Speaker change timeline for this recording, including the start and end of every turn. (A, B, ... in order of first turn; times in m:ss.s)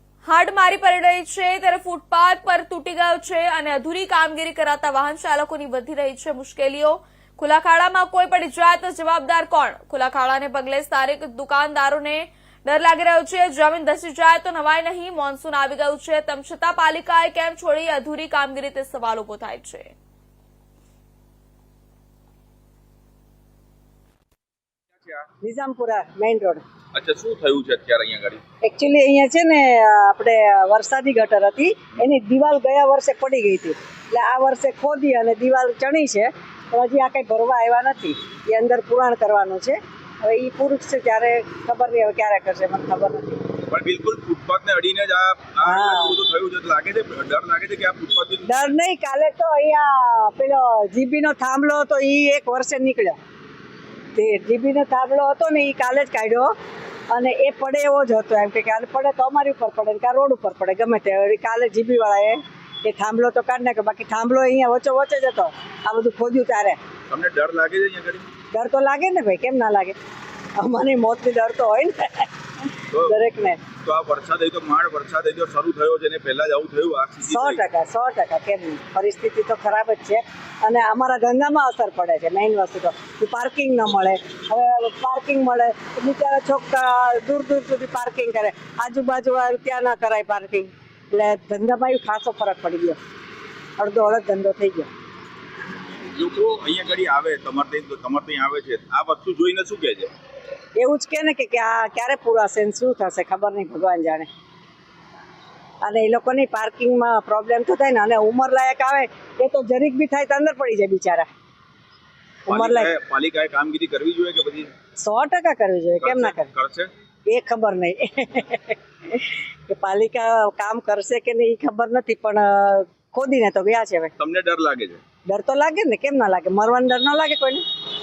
0:00.2-0:19.9 A
0:25.4-0:26.6 B
0:26.9-0:28.4 C
0:28.6-0:43.4 B
0:43.7-0:48.7 C
0:45.6-0:46.1 B
0:48.4-0:53.2 B
0:54.1-0:56.5 B
0:57.1-1:06.8 B
1:07.1-1:08.2 C
1:08.5-1:10.0 B
1:10.6-1:12.3 B
1:12.9-1:13.2 C
1:13.0-1:13.6 B
1:13.8-1:17.6 C
1:17.3-1:33.0 B
1:33.8-1:34.9 B
1:36.1-1:40.1 C
1:40.8-1:44.3 B
1:45.8-1:51.3 B
1:52.5-1:52.9 B
1:52.5-1:54.7 C
1:55.0-1:56.5 B
1:56.0-1:56.9 C
1:57.3-2:04.1 B
2:04.2-2:05.0 C
2:05.3-2:07.6 B